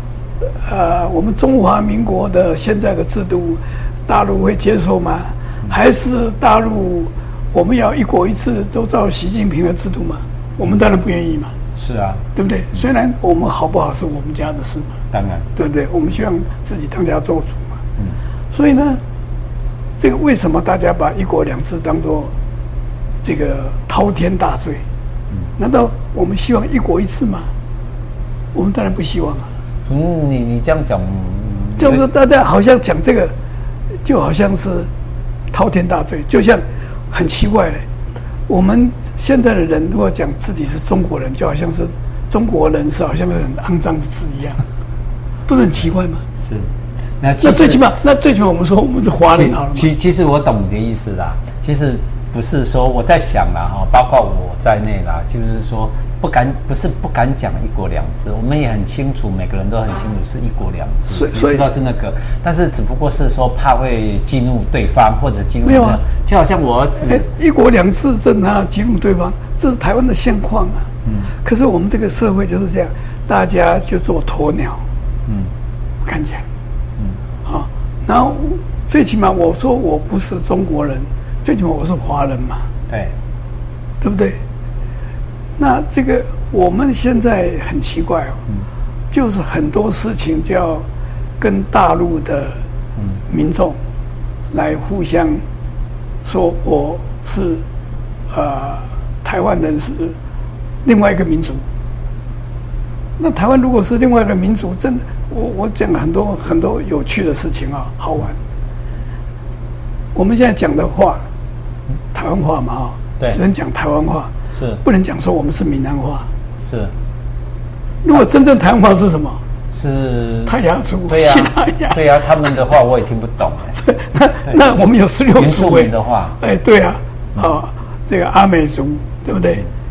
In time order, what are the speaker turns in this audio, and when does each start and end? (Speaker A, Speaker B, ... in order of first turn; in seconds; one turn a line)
Speaker A: 0.4-11.5
Speaker B: 11.8-12.2
Speaker A: 12.3-15.0
Speaker B: 15.1-15.4
Speaker A: 15.6-17.8
Speaker A: 18.5-19.0
Speaker A: 20.0-22.3
Speaker A: 23.2-24.8
Speaker A: 25.6-27.5
Speaker A: 28.5-29.5
Speaker B: 29.9-32.0
Speaker A: 31.8-33.3
Speaker A: 34.0-34.9
Speaker A: 35.5-37.8
Speaker A: 38.5-44.6
Speaker A: 45.5-46.2
Speaker B: 46.4-46.7
Speaker B: 47.2-47.8
Speaker A: 47.4-49.9
Speaker B: 49.3-67.3
Speaker A: 61.1-61.6
Speaker A: 65.6-66.0
Speaker A: 67.0-70.8
Speaker B: 71.0-71.3
Speaker A: 71.4-74.8
Speaker B: 75.3-75.5
Speaker A: 76.0-76.4
Speaker A: 77.4-82.7
Speaker B: 82.9-83.1
Speaker A: 84.0-84.4
Speaker A: 85.6-88.4
Speaker A: 89.1-90.8
Speaker A: 91.4-92.6
Speaker A: 93.3-93.8
Speaker A: 94.5-95.4
Speaker A: 96.2-97.6
Speaker A: 98.3-100.1
Speaker A: 100.8-101.6
Speaker A: 103.2-108.3
Speaker A: 110.1-111.2
Speaker A: 112.1-116.3
Speaker B: 114.5-114.8
Speaker B: 116.6-116.9
Speaker A: 118.0-119.4
Speaker B: 119.7-123.8
Speaker A: 120.5-122.0
Speaker A: 123.8-129.6
Speaker B: 125.3-126.4